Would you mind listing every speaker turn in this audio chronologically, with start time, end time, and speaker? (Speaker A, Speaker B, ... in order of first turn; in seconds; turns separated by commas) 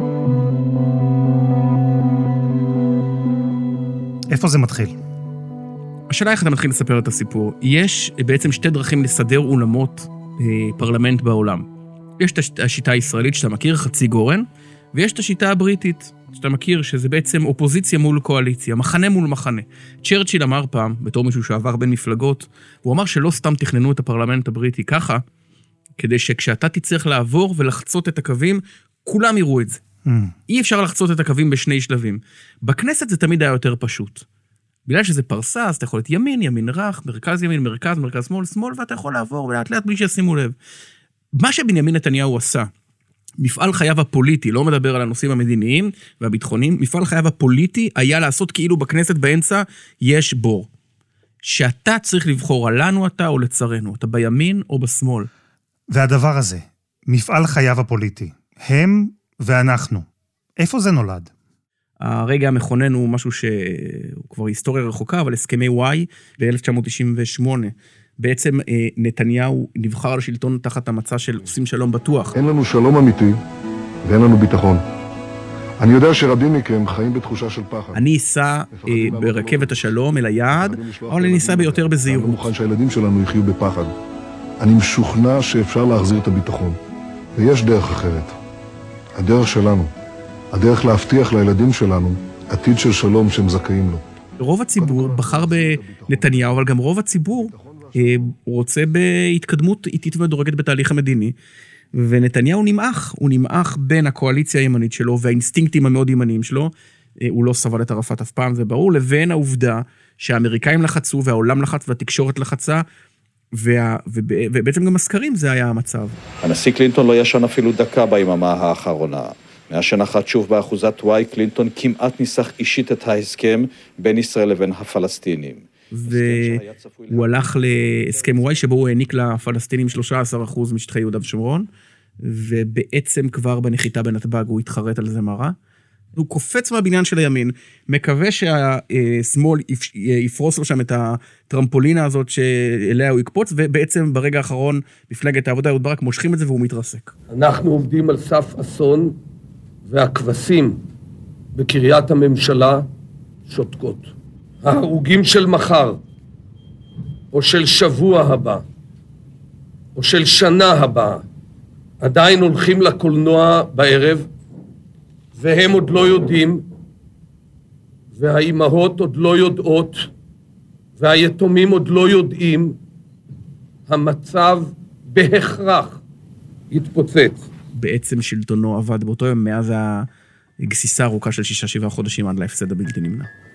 Speaker A: 4.3-4.9, Speaker B: 6.1-11.7, Speaker B: 12.2-25.2, Speaker B: 26.0-29.8, Speaker A: 30.1-30.3, Speaker B: 30.5-34.3, Speaker B: 34.9-40.5, Speaker B: 41.4-42.7, Speaker B: 43.4-50.7, Speaker B: 51.4-55.3, Speaker A: 55.9-60.1, Speaker A: 60.6-61.3, Speaker B: 62.0-72.3, Speaker C: 72.4-73.4, Speaker C: 74.0-74.8, Speaker C: 75.8-78.0, Speaker B: 77.9-82.5, Speaker C: 78.8-79.8, Speaker C: 80.5-83.9, Speaker C: 84.6-86.8, Speaker C: 87.4-88.4, Speaker C: 89.2-89.9, Speaker C: 90.5-94.0, Speaker B: 94.4-101.3, Speaker C: 94.8-96.4, Speaker C: 97.5-98.2, Speaker B: 101.9-112.8, Speaker B: 113.6-116.2, Speaker D: 116.4-127.4, Speaker B: 125.9-131.7, Speaker B: 132.2-135.6, Speaker B: 136.2-147.1, Speaker E: 147.3-149.2, Speaker E: 149.9-150.8, Speaker E: 151.5-152.9, Speaker E: 153.5-156.0, Speaker E: 157.3-158.7, Speaker E: 160.0-161.3, Speaker E: 162.0-164.3, Speaker E: 165.3-166.7, Speaker E: 168.1-170.1, Speaker E: 171.0-172.8, Speaker E: 173.9-176.0, Speaker E: 176.7-177.5, Speaker B: 177.8-180.1, Speaker B: 180.6-183.3